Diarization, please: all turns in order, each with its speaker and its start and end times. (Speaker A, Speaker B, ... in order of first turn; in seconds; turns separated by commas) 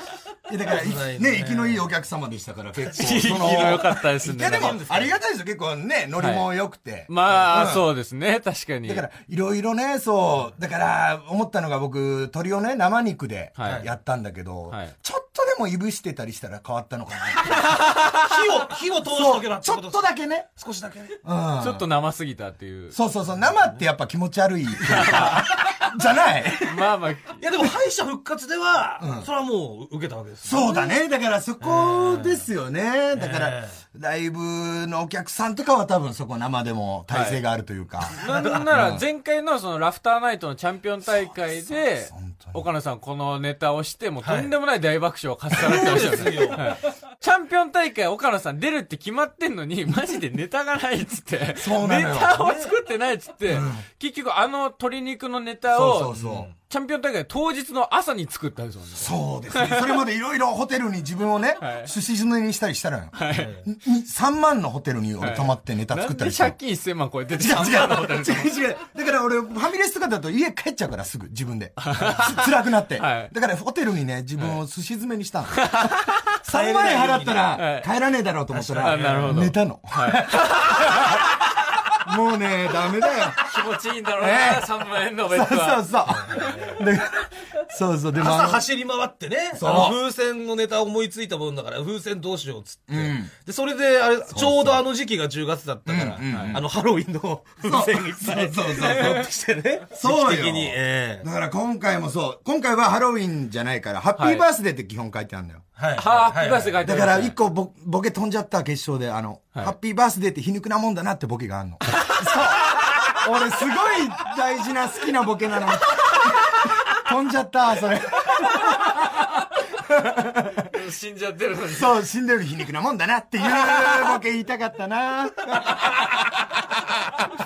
Speaker A: 0.5-7.9, Speaker B: 0.7-1.9, Speaker B: 2.8-5.2, Speaker C: 3.0-4.8, Speaker C: 6.2-6.5, Speaker C: 7.1-9.1, Speaker A: 8.9-17.7, Speaker C: 13.6-13.9, Speaker B: 13.6-13.9, Speaker C: 17.6-18.2, Speaker B: 17.8-21.2, Speaker A: 19.0-20.5, Speaker A: 21.2-21.9, Speaker C: 21.6-23.0, Speaker A: 22.9-26.9, Speaker B: 23.4-23.8, Speaker C: 24.8-25.9, Speaker C: 26.6-27.4, Speaker B: 27.4-31.0, Speaker A: 29.0-29.3, Speaker A: 30.4-38.2, Speaker B: 31.6-32.5, Speaker B: 33.1-33.8, Speaker C: 37.1-37.4, Speaker C: 38.2-59.8, Speaker B: 38.2-38.7, Speaker A: 38.7-39.1, Speaker A: 41.7-42.6, Speaker B: 44.2-44.5, Speaker B: 45.5-46.7, Speaker A: 51.6-52.4, Speaker B: 52.4-52.7, Speaker A: 53.5-53.8, Speaker A: 55.7-56.5, Speaker B: 56.1-56.5, Speaker A: 59.0-66.6, Speaker C: 61.6-61.9, Speaker C: 63.1-63.5, Speaker B: 63.4-63.6, Speaker C: 65.2-68.5, Speaker A: 67.4-75.9, Speaker C: 71.8-72.4, Speaker C: 73.0-73.3, Speaker C: 75.6-76.2, Speaker A: 76.4-80.7, Speaker B: 76.5-77.5, Speaker C: 77.6-77.9, Speaker B: 78.5-79.4, Speaker C: 78.8-81.2, Speaker A: 82.0-83.6, Speaker C: 83.4-86.5, Speaker A: 84.1-88.7, Speaker B: 86.1-86.8, Speaker B: 88.2-101.3, Speaker A: 89.5-90.0, Speaker A: 92.9-93.3, Speaker A: 94.3-94.8, Speaker A: 95.9-96.7, Speaker C: 96.3-96.6, Speaker A: 97.6-99.3, Speaker C: 98.8-99.2, Speaker A: 100.0-105.6, Speaker C: 104.2-104.5, Speaker B: 105.8-106.8, Speaker C: 106.0-107.4, Speaker A: 106.8-120.7, Speaker C: 120.7-122.0, Speaker A: 121.7-126.7